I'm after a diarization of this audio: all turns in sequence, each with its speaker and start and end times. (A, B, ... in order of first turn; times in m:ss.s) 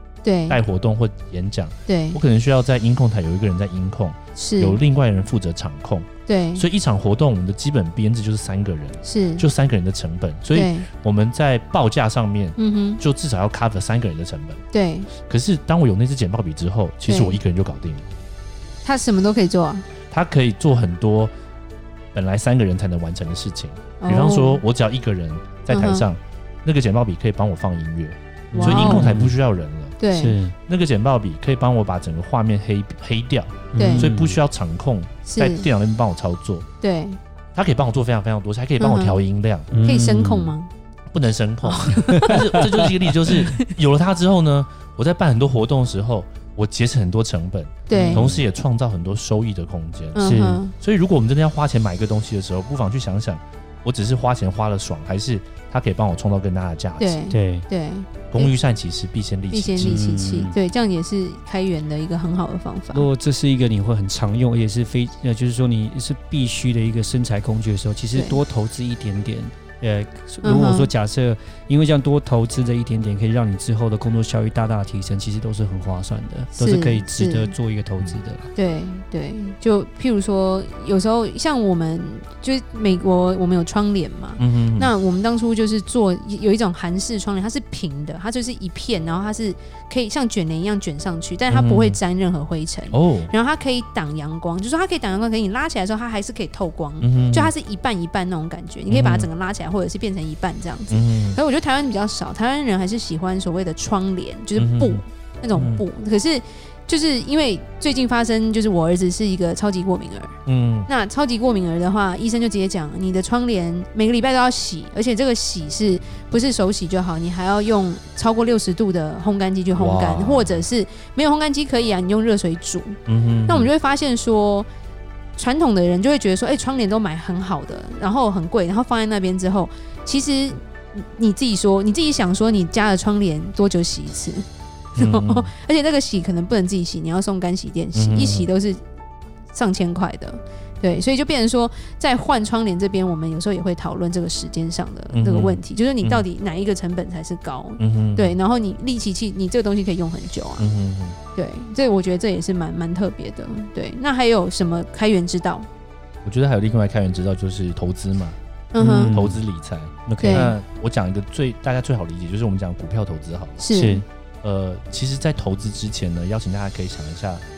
0:00.2-0:00.6 A
0:00.5-0:14.6 B
0:01.9-0:02.2 A
0:04.4-0:04.8 A
0:06.3-0:06.6 A
0:09.0-0:09.4 A
0:10.5-0:10.9 A
0:12.6-0:13.0 A
0:14.7-0:15.1 A
0:15.2-0:18.1 B
0:17.1-0:17.4 A
0:18.8-0:19.9 A
0:20.1-0:21.3 B
0:22.1-0:30.0 B
0:24.0-0:24.6 A
0:25.7-0:26.1 A
0:28.5-0:29.3 C
0:28.6-0:29.1 A
0:30.0-0:30.4 A
0:30.1-0:30.6 C
0:30.7-0:36.7 B
0:33.7-0:34.4 C
0:33.8-0:34.1 A
0:35.3-0:35.7 A
0:36.8-0:37.2 A
0:37.5-0:39.7 B
0:38.8-0:39.2 A
0:39.7-0:40.5 C
0:39.8-0:40.7 A
0:41.1-0:57.2 B
0:41.6-0:42.5 A
0:42.1-0:42.6 C
0:47.9-0:48.2 A
0:47.9-0:48.4 C
0:50.1-0:50.7 A
0:50.2-0:50.6 C
0:57.0-0:58.6 A
0:57.3-0:57.6 C
0:58.3-1:00.0 B
0:59.5-1:03.1 A
0:59.8-1:00.5 C
1:02.9-1:18.5 C
1:08.1-1:08.4 A
1:10.4-1:10.9 A
1:16.6-1:17.5 A
1:18.5-2:04.7 A
1:24.4-1:24.9 B
1:31.5-1:32.0 B
1:32.9-1:33.3 B
1:37.0-1:37.5 B
1:38.9-1:39.3 B
1:40.9-1:41.4 B
1:44.6-1:45.0 B
1:45.5-1:45.8 B
1:50.4-1:50.9 B
1:59.7-2:00.6 B
2:03.0-2:03.7 B
2:05.4-2:14.4 A
2:15.0-2:18.8 A
2:15.0-2:15.5 B
2:17.9-2:18.5 B
2:19.5-2:30.7 A
2:25.1-2:26.2 B
2:27.8-2:28.4 B
2:30.6-2:31.2 B
2:31.3-2:35.6 A
2:36.2-2:38.4 B
2:38.7-2:39.1 A
2:38.8-2:39.4 C
2:39.0-2:43.7 B
2:40.1-2:40.5 C
2:40.2-2:40.5 A
2:43.6-2:44.0 A
2:43.7-2:44.0 C
2:44.4-2:47.4 B